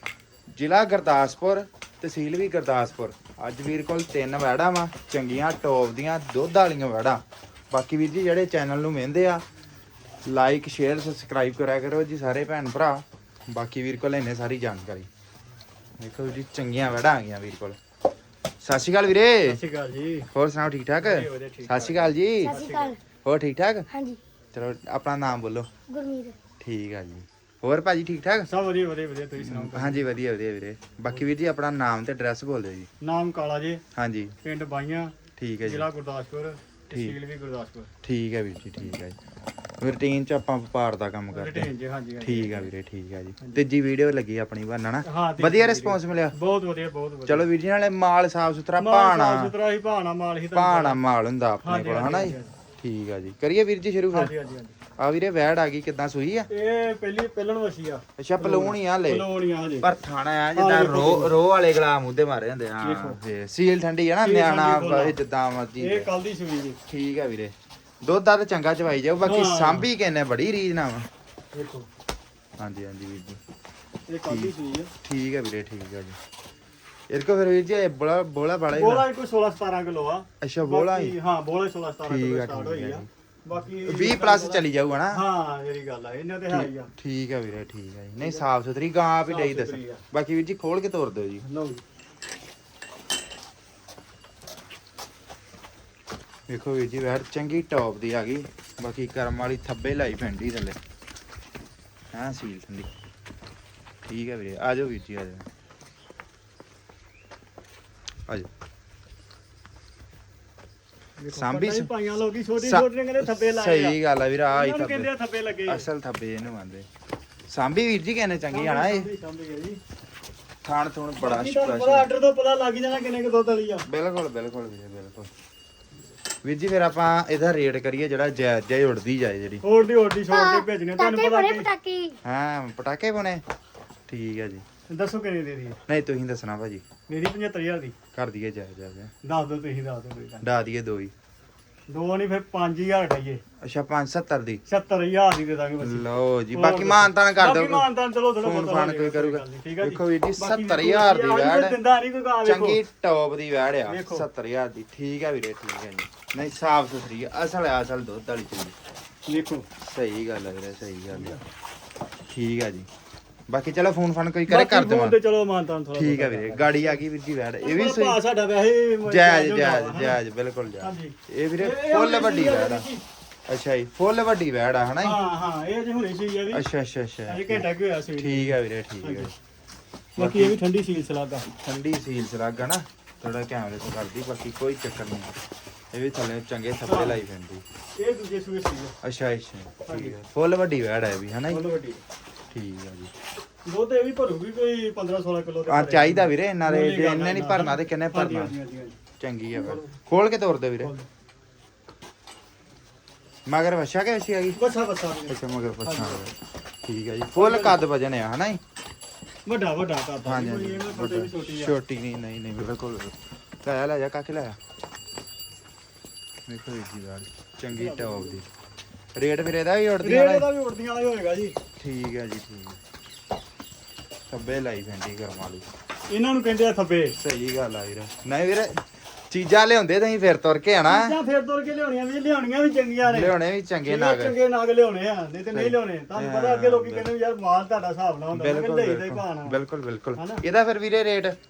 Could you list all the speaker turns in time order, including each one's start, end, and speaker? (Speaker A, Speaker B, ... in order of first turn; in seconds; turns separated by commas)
Speaker A: 0.5-9.4, Speaker A: 10.2-15.1, Speaker A: 16.0-17.8, Speaker A: 18.6-19.6, Speaker B: 19.4-20.3, Speaker A: 20.3-22.5, Speaker B: 21.0-22.9, Speaker C: 22.4-23.0, Speaker A: 23.2-23.9, Speaker C: 23.9-24.2, Speaker A: 24.5-25.7, Speaker C: 25.9-26.4, Speaker A: 26.6-28.5, Speaker B: 28.5-30.1, Speaker A: 29.4-32.9, Speaker B: 33.0-33.8, Speaker A: 34.0-34.4, Speaker B: 34.4-37.9, Speaker A: 35.4-35.9, Speaker A: 38.0-39.2, Speaker A: 39.8-41.7, Speaker B: 41.3-42.7, Speaker A: 42.2-46.4, Speaker B: 45.0-47.5, Speaker A: 47.3-49.5, Speaker B: 48.8-51.0, Speaker A: 50.5-54.3, Speaker B: 51.6-52.5, Speaker B: 54.1-54.8, Speaker A: 55.0-56.5, Speaker B: 56.5-59.9, Speaker A: 58.2-59.2, Speaker A: 59.8-66.1, Speaker B: 60.5-61.4, Speaker B: 62.8-63.2, Speaker B: 64.2-65.2, Speaker B: 65.8-66.8, Speaker A: 66.9-71.1, Speaker B: 69.2-69.9, Speaker B: 71.5-71.9, Speaker A: 72.6-73.4, Speaker B: 74.1-74.9, Speaker A: 75.0-76.2, Speaker A: 77.1-79.1, Speaker B: 78.7-86.9, Speaker A: 80.4-81.1, Speaker A: 82.1-83.1, Speaker A: 83.8-85.2, Speaker A: 86.5-91.5, Speaker B: 88.2-88.4, Speaker B: 89.3-90.0, Speaker B: 91.5-91.8, Speaker A: 96.5-100.8, Speaker A: 102.1-102.9, Speaker A: 104.1-105.5, Speaker B: 111.2-115.9, Speaker A: 111.3-111.9, Speaker A: 112.6-115.1, Speaker A: 115.7-116.9, Speaker A: 117.5-119.1, Speaker B: 118.5-119.8, Speaker A: 120.6-122.1, Speaker B: 121.2-123.9, Speaker A: 123.9-125.3, Speaker A: 126.4-129.6, Speaker B: 129.6-131.7, Speaker C: 130.3-132.1, Speaker A: 132.2-133.4, Speaker A: 134.1-134.6, Speaker B: 134.9-135.8, Speaker A: 135.9-136.8, Speaker B: 137.1-137.9, Speaker A: 138.1-139.1, Speaker B: 139.2-140.4, Speaker A: 140.4-141.1, Speaker B: 141.9-143.4, Speaker A: 143.6-144.6, Speaker B: 144.7-152.8, Speaker A: 145.8-147.9, Speaker A: 148.4-151.8, Speaker A: 152.4-158.7, Speaker B: 153.8-154.2, Speaker B: 159.3-159.7, Speaker A: 159.8-161.4, Speaker B: 161.1-161.4, Speaker A: 162.3-162.9, Speaker A: 163.5-165.2, Speaker B: 164.5-167.0, Speaker A: 165.9-168.2, Speaker B: 167.6-170.2, Speaker A: 169.1-172.9, Speaker B: 170.8-173.0, Speaker A: 173.5-175.2, Speaker B: 175.0-176.7, Speaker A: 176.5-177.6, Speaker B: 177.3-179.3, Speaker A: 178.2-179.3, Speaker B: 180.2-181.4, Speaker A: 180.2-180.6, Speaker A: 181.5-185.3, Speaker A: 185.9-187.6, Speaker B: 186.9-187.2, Speaker B: 188.0-188.9, Speaker A: 189.0-191.6, Speaker B: 189.8-190.2, Speaker B: 191.5-192.0, Speaker A: 192.5-193.1, Speaker B: 193.7-199.0, Speaker A: 195.7-198.5, Speaker A: 199.2-200.9, Speaker B: 199.5-200.0, Speaker B: 200.8-201.1, Speaker A: 203.5-204.6, Speaker B: 204.5-206.2, Speaker A: 205.3-208.6, Speaker B: 207.3-207.8, Speaker B: 209.4-211.7, Speaker A: 210.2-214.6, Speaker A: 216.5-218.5, Speaker B: 217.7-218.4, Speaker A: 219.1-220.5, Speaker B: 220.0-221.6, Speaker A: 221.8-222.8, Speaker A: 224.3-225.7, Speaker B: 226.1-227.2, Speaker A: 227.2-231.2, Speaker B: 230.8-233.3, Speaker A: 233.1-234.3, Speaker B: 233.8-239.6, Speaker A: 235.5-237.1, Speaker A: 238.3-241.3, Speaker B: 240.2-240.4